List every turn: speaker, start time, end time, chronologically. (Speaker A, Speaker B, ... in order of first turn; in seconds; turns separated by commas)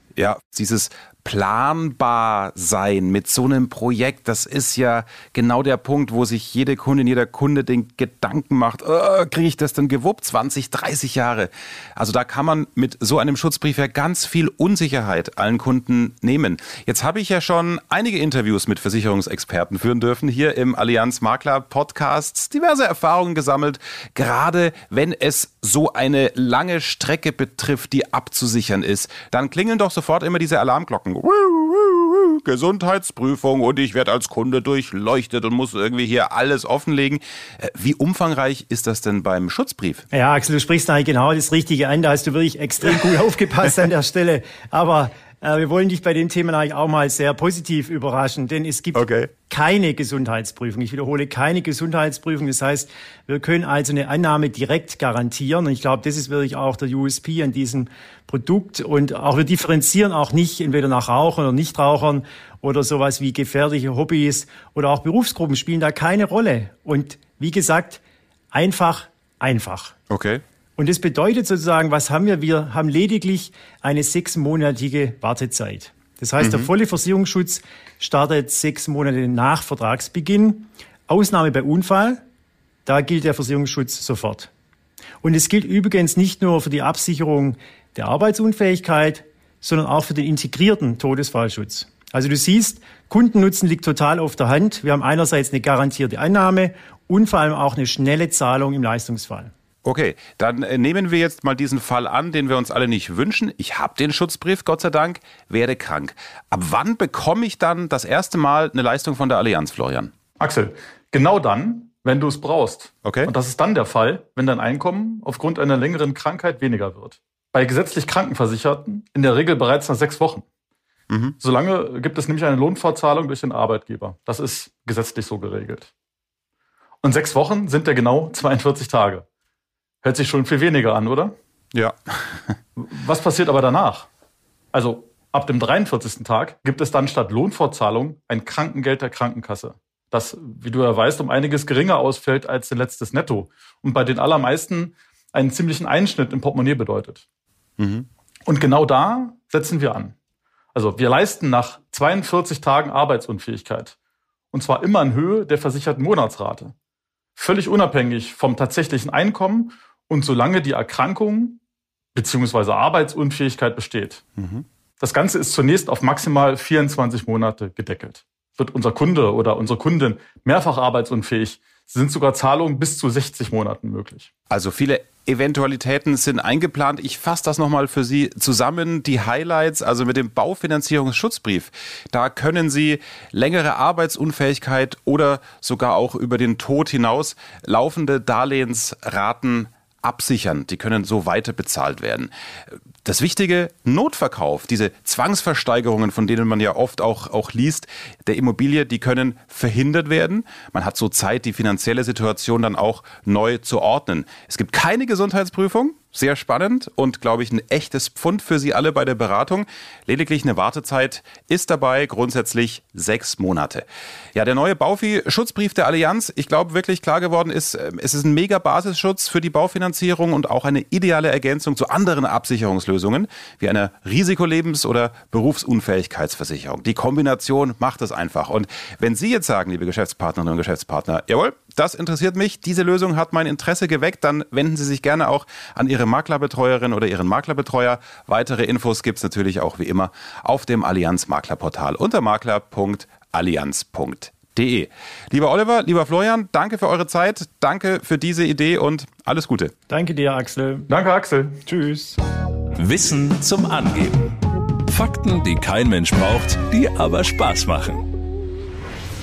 Speaker A: 0.1-40.0, Speaker B: 40.1-68.0, Speaker A: 48.9-49.3, Speaker B: 68.5-70.0, Speaker A: 70.1-70.4, Speaker B: 70.8-82.2, Speaker A: 76.4-76.7, Speaker B: 82.8-84.5, Speaker B: 85.2-99.5, Speaker A: 99.8-110.1, Speaker C: 110.4-120.4, Speaker A: 113.0-113.3, Speaker A: 121.1-121.3, Speaker C: 121.4-125.9, Speaker C: 127.0-129.2, Speaker C: 130.0-131.3, Speaker A: 131.7-132.6, Speaker C: 132.8-134.1, Speaker C: 134.7-147.2, Speaker A: 147.8-148.1, Speaker C: 148.4-150.1, Speaker C: 150.7-153.9, Speaker C: 154.5-156.7, Speaker C: 157.3-161.6, Speaker C: 162.1-164.2, Speaker A: 164.4-164.6, Speaker C: 165.0-174.3, Speaker A: 174.5-192.3, Speaker A: 193.0-249.7, Speaker B: 249.9-250.9, Speaker C: 250.9-251.6, Speaker B: 251.7-252.2, Speaker D: 252.8-258.0